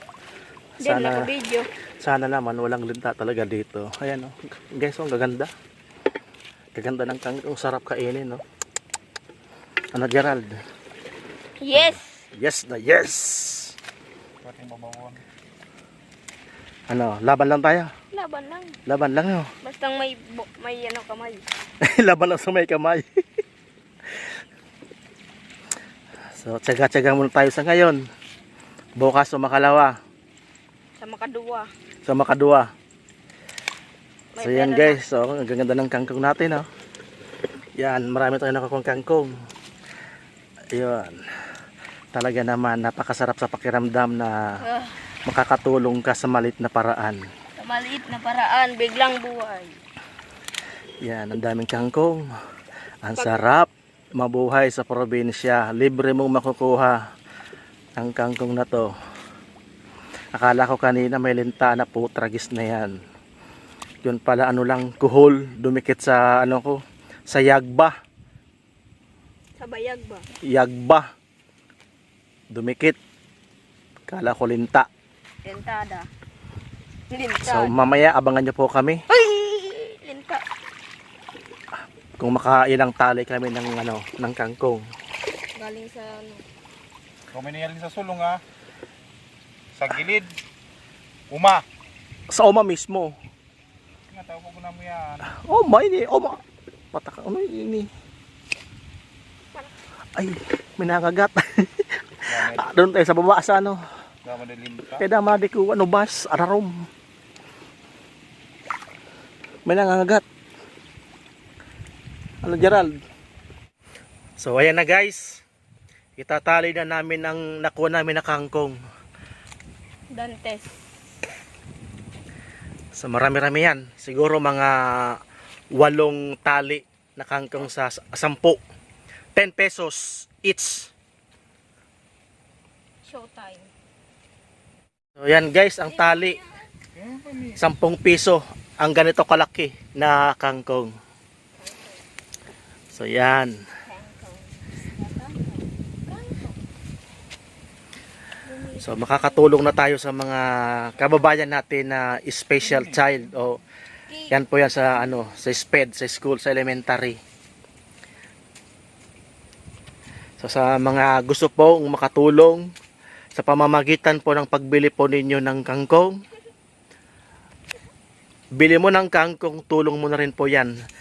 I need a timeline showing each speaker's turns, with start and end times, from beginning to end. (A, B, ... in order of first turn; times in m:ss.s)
0:00.8-0:01.7 A
0:00.8-0:01.3 B
0:02.0-0:05.5 B
0:06.7-0:08.4 B
0:09.9-0:10.6 B
0:11.6-0:12.0 A
0:11.7-0:13.8 B
0:14.4-0:15.2 C
0:16.9-0:17.9 B
0:18.1-0:18.8 A
0:18.8-0:19.5 B
0:19.6-0:21.4 A
0:21.8-0:23.0 B
0:26.4-0:28.0 B
0:29.0-0:29.9 B
0:31.0-0:31.7 A
0:32.0-0:32.7 B
0:34.3-0:35.0 A
0:34.4-0:36.7 B
0:37.8-0:39.3 B
0:40.7-0:41.2 B
0:42.1-0:44.6 B
0:44.6-0:45.0 A
0:45.2-0:47.2 B
0:47.6-0:49.8 A
0:51.0-0:52.3 B
0:53.0-0:57.0 B
0:58.0-0:58.9 B
1:00.3-1:02.9 B
1:04.0-1:07.9 B
1:09.6-1:10.2 A
1:10.4-1:11.1 B
1:12.5-1:13.0 B
1:14.1-1:14.9 B
1:15.4-1:16.1 A
1:17.1-1:17.7 A
1:17.4-1:19.0 B
1:19.1-1:20.4 A
1:22.2-1:24.8 B
1:25.5-1:26.4 A
1:27.3-1:28.4 C
1:29.7-1:30.3 C
1:31.3-1:31.6 C
1:32.3-1:33.2 B
1:34.1-1:35.3 C
1:35.3-1:36.4 B
1:36.9-1:37.9 B
1:40.2-1:43.8 B
1:42.3-1:42.7 C
1:44.2-1:45.0 C
1:45.0-1:46.7 B
1:49.6-1:50.2 B
1:52.4-1:52.9 B
1:54.4-1:55.4 B
1:56.2-1:58.8 B
2:00.1-2:00.7 A
2:02.9-2:05.2 B
2:05.7-2:08.6 B
2:09.3-2:10.9 B
2:13.0-2:13.7 A
2:15.2-2:16.4 B
2:16.0-2:16.5 A
2:16.9-2:17.6 C
2:17.6-2:20.9 B
2:21.6-2:22.0 A
2:22.9-2:23.6 B
2:23.8-2:26.6 A
2:28.4-2:29.5 A
2:28.8-2:33.6 B
2:34.3-2:37.2 B
2:40.4-2:42.7 B
2:43.3-2:46.2 B
2:48.5-2:50.7 B